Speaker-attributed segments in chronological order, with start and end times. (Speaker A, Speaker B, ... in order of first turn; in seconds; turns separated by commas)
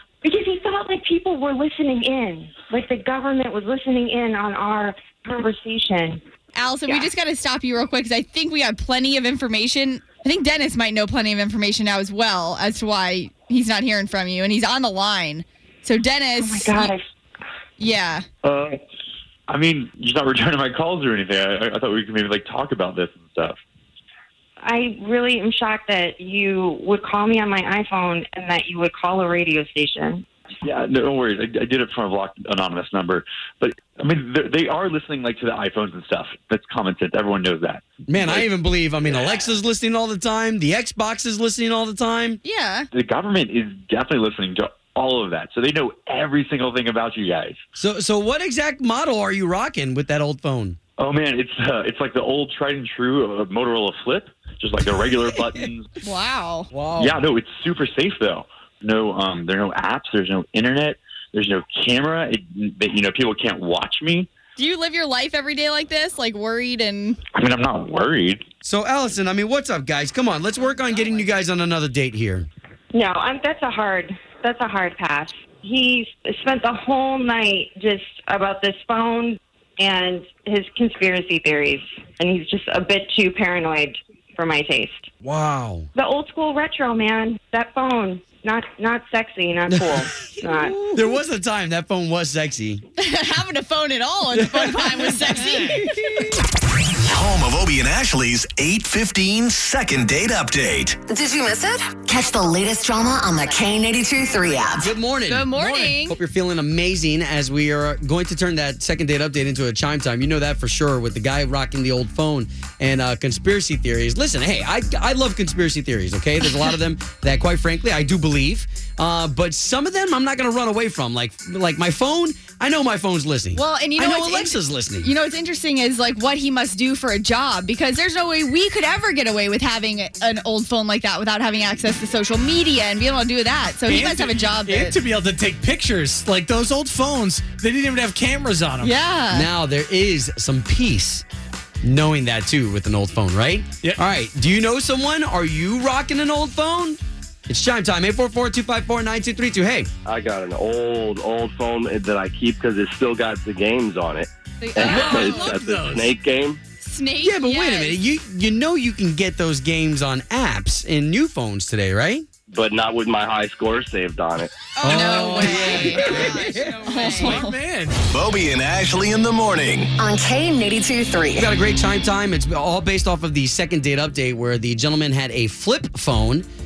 Speaker A: 0.2-6.2, Speaker B: 6.5-16.9, Speaker A: 16.4-17.0, Speaker B: 17.8-18.2, Speaker C: 18.4-18.8, Speaker C: 19.5-23.6, Speaker A: 24.6-30.2, Speaker C: 30.6-38.4, Speaker D: 38.1-42.4, Speaker B: 42.4-42.9, Speaker C: 42.9-47.6, Speaker D: 47.8-50.8, Speaker C: 51.0-55.9, Speaker B: 56.0-56.7, Speaker D: 56.7-57.2, Speaker C: 57.0-64.3, Speaker B: 64.6-67.2, Speaker C: 67.3-68.4, Speaker D: 68.6-72.5, Speaker A: 72.9-85.1, Speaker D: 85.2-85.9, Speaker A: 85.9-90.8, Speaker D: 89.7-92.8, Speaker B: 93.0-96.3, Speaker D: 94.7-95.0, Speaker E: 97.1-101.0, Speaker F: 101.0-104.9, Speaker D: 104.8-125.1, Speaker B: 105.3-106.2, Speaker B: 123.5-135.0, Speaker G: 133.9-138.9, Speaker B: 138.8-139.5, Speaker D: 139.3-141.2, Speaker D: 141.8-149.9, Speaker H: 150.0-156.6, Speaker B: 154.6-155.6, Speaker G: 154.8-156.1, Speaker B: 156.8-158.0, Speaker D: 157.2-162.3, Speaker H: 162.5-164.7, Speaker B: 164.8-167.5, Speaker D: 164.8-167.0, Speaker G: 164.9-166.2, Speaker G: 166.8-168.0, Speaker E: 168.1-169.9, Speaker F: 170.0-171.5, Speaker D: 171.3-176.5